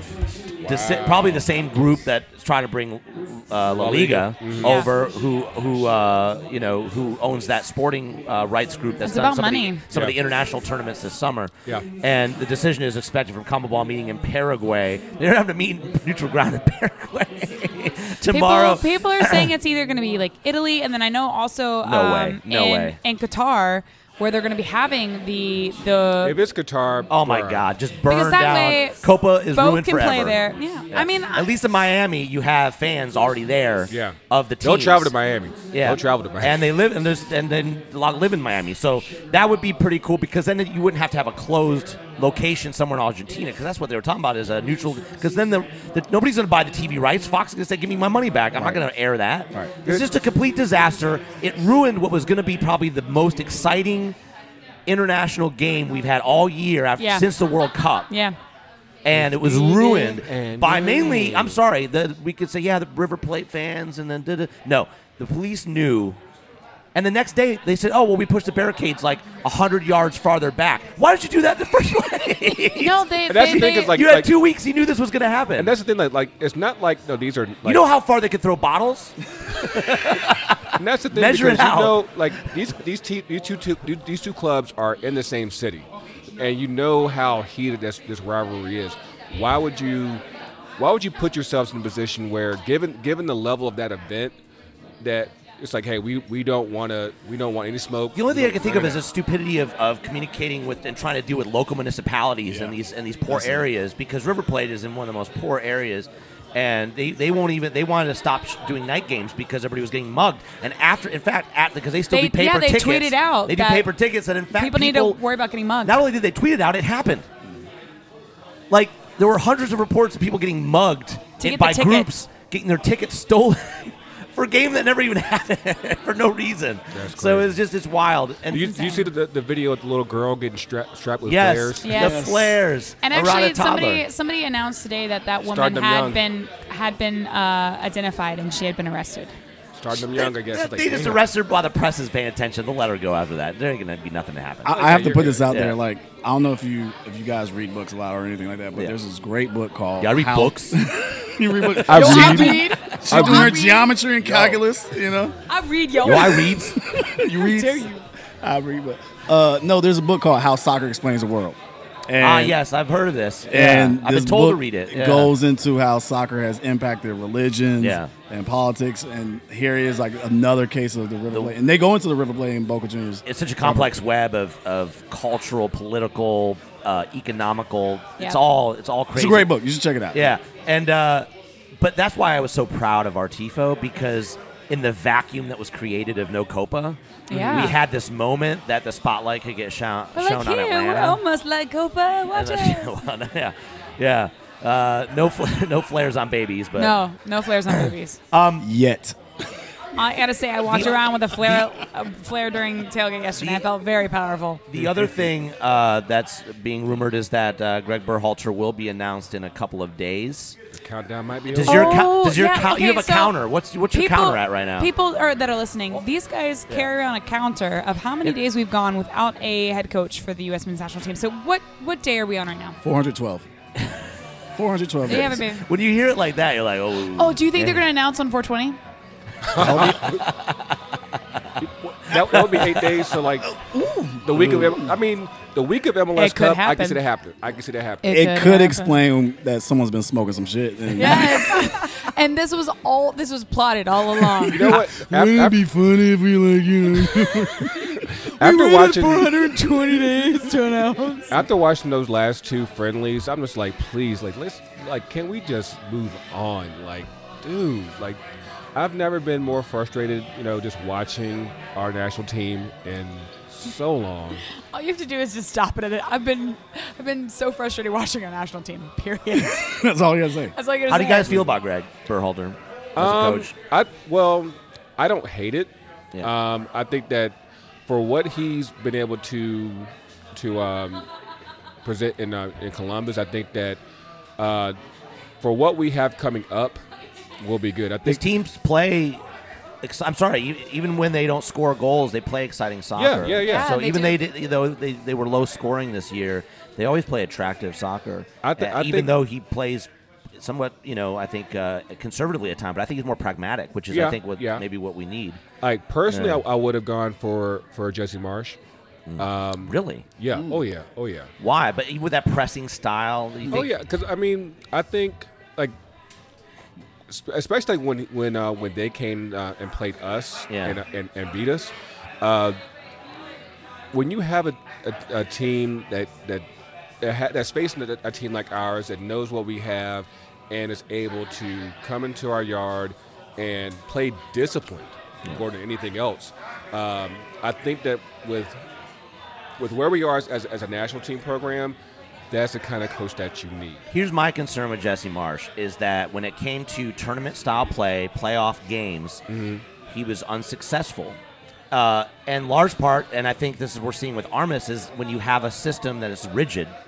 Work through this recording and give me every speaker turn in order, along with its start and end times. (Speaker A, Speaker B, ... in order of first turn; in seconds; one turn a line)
Speaker A: 0.6-1.5
Speaker B: 0.6-19.5
Speaker A: 3.8-4.8
Speaker C: 4.6-4.9
Speaker C: 9.0-9.8
Speaker C: 18.3-26.4
Speaker B: 21.8-23.0
Speaker A: 26.2-27.6
Speaker B: 27.1-30.4
Speaker C: 28.1-29.0
Speaker C: 29.5-31.5
Speaker B: 30.9-35.1
Speaker A: 33.9-36.6
Speaker B: 35.7-54.1
Speaker D: 48.5-48.8
Speaker B: 54.9-58.1
Speaker C: 57.0-57.2
Speaker C: 58.1-58.3
Speaker B: 59.0-66.2
Speaker A: 59.1-61.6
Speaker B: 66.9-75.7
Speaker C: 72.8-74.0
Speaker A: 73.3-74.3
Speaker A: 75.6-77.8
Speaker B: 77.6-82.1
Speaker A: 80.8-90.2
Speaker A: 90.8-94.4
Speaker A: 95.0-99.0
Speaker B: 98.1-115.2
Speaker D: 102.5-102.8
Speaker D: 103.3-103.6
Speaker C: 112.1-113.9
Speaker C: 114.5-116.0
Speaker B: 115.8-117.3
Speaker B: 118.7-128.8
Speaker C: 121.4-122.1
Speaker A: 126.9-127.6
Speaker A: 128.5-131.9
Speaker C: 128.6-129.1
Speaker B: 131.2-134.0
Speaker C: 131.8-132.3
Speaker D: 131.9-132.6
Speaker C: 133.0-139.3
Speaker A: 135.4-136.2
Speaker A: 139.8-141.2
Speaker B: 139.9-144.8
Speaker D: 144.6-155.4
Speaker A: 144.7-145.5
Speaker B: 145.5-145.8
Speaker B: 150.0-150.8
Speaker A: 151.8-153.6
Speaker C: 151.9-153.9
Speaker A: 154.2-154.6
Speaker C: 155.5-156.7
Speaker B: 156.0-156.8
Speaker D: 156.0-162.6
Speaker C: 157.3-158.0
Speaker B: 162.2-165.3
Speaker D: 163.5-173.9
Speaker B: 167.8-168.1
Speaker B: 173.2-179.5
Speaker D: 179.1-180.3
Speaker B: 180.1-191.2
Speaker C: 187.3-187.8
Speaker D: 187.3-187.7
Speaker C: 190.1-192.9
Speaker B: 192.3-197.0
Speaker C: 196.8-198.2
Speaker B: 197.7-198.7
Speaker D: 198.6-199.2
Speaker C: 200.0-204.6
Speaker B: 200.7-201.6
Speaker B: 203.3-203.7
Speaker B: 204.7-210.6
Speaker A: 204.7-205.0
Speaker A: 210.7-212.0
Speaker B: 211.5-214.9
Speaker C: 211.6-213.3
Speaker C: 213.9-222.8
Speaker D: 222.8-223.4
Speaker D: 224.6-225.4
Speaker C: 225.1-225.6
Speaker B: 225.2-227.8
Speaker C: 227.1-228.8
Speaker A: 229.4-230.2
Speaker B: 229.6-230.7
Speaker D: 229.6-230.1
Speaker A: 231.6-233.5
Speaker B: 232.1-233.0
Speaker D: 233.5-234.9
Speaker A: 234.2-238.2
Speaker C: 236.1-237.0
Speaker C: 238.0-239.0
Speaker D: 238.0-241.9
Speaker C: 240.9-244.8
Speaker D: 244.1-250.7
Speaker A: 244.5-245.6
Speaker A: 248.0-249.3
Speaker C: 248.4-251.4
Speaker A: 251.3-258.2
Speaker A: 258.7-264.4
Speaker C: 264.7-269.8
Speaker D: 269.3-270.5
Speaker C: 270.5-271.5
Speaker B: 270.9-273.5
Speaker A: 272.9-281.1
Speaker A: 281.8-283.8
Speaker A: 284.4-284.8
Speaker A: 285.4-286.8
Speaker A: 287.4-288.2
Speaker B: 288.1-289.2
Speaker B: 289.8-305.4
Speaker A: 292.9-293.7
Speaker C: 293.5-294.2
Speaker A: 298.4-299.1
Speaker A: 303.9-304.6
Speaker A: 305.6-308.6
Speaker B: 306.1-306.4
Speaker B: 309.1-310.0
Speaker A: 309.2-311.3
Speaker B: 311.4-313.7
Speaker A: 313.5-315.7
Speaker A: 317.1-322.6
Speaker B: 320.5-320.8
Speaker A: 323.9-326.4
Speaker A: 327.0-338.6
Speaker A: 339.6-341.8
Speaker A: 342.3-343.8
Speaker B: 343.9-349.2
Speaker A: 349.3-349.6
Speaker B: 349.9-351.2
Speaker B: 351.7-356.7